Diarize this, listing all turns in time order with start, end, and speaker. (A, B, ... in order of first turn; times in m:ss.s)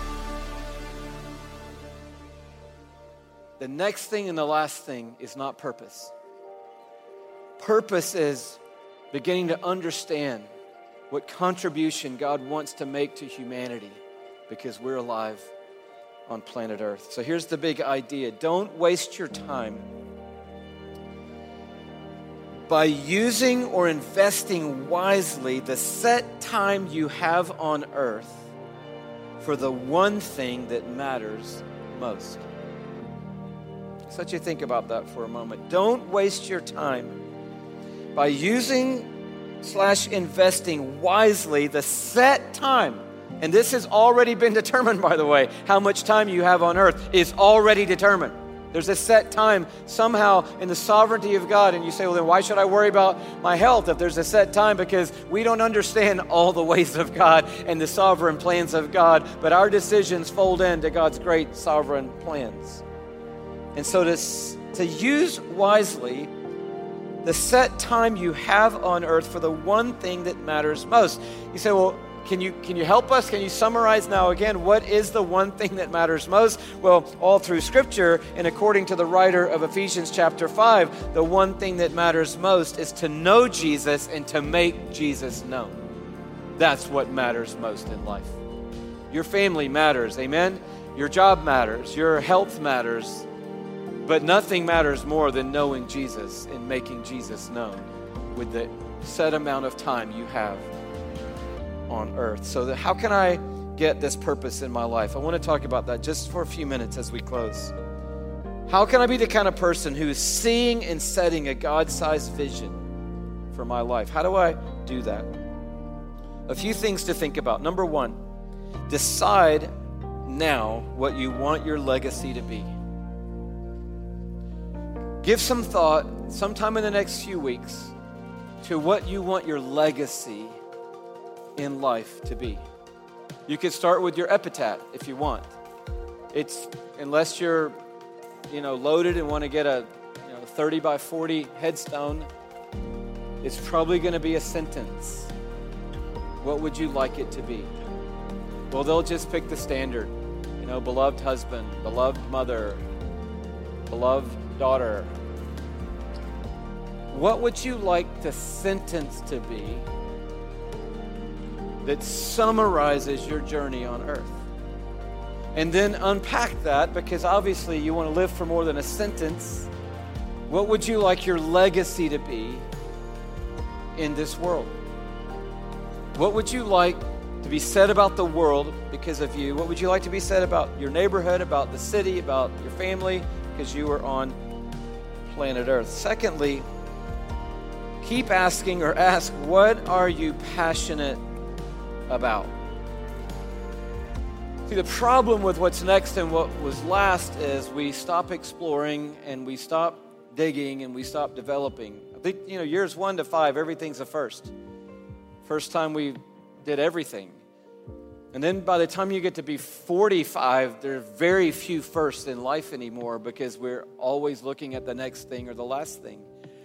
0:03.6-0:06.1 A
0:07.6-0:08.6 A
0:09.1-0:10.5 A
0:11.1-0:15.5 A
0:16.3-0:19.8 A
0:22.7-0:28.5 A
0:29.4-0:32.5 A
0:34.1-0:37.2 A
0:38.1-0:39.1 A
0:39.6-1:02.8 A
1:03.8-1:06.3 A
1:07.2-1:25.8 A
1:26.6-1:28.4 A
1:29.1-1:33.3 A
1:34.0-1:40.7 A
1:41.9-1:47.7 A
1:48.7-1:52.8 A
1:53.5-1:55.3 A
1:56.5-1:58.2 A
1:58.9-1:59.7 A
2:00.2-2:02.7 A
2:05.2-2:07.9 A
2:08.6-2:10.6 A
2:11.6-2:12.6 A
2:13.5-2:15.6 A
2:16.3-2:17.8 A
2:18.5-2:22.3 A
2:23.4-2:25.3 A
2:26.4-2:27.7 A
2:28.7-2:32.8 A
2:33.9-2:35.1 A
2:37.1-2:39.9 A
2:41.8-2:44.4 A
2:45.5-2:49.7 A
2:50.5-2:52.6 A
2:54.0-2:54.8 A
2:56.2-3:04.4 A
3:05.3-3:06.7 A
3:08.0-3:11.2 A
3:12.1-3:12.5 A
3:14.7-3:24.5 A
3:25.4-3:27.4 A
3:28.3-3:36.3 A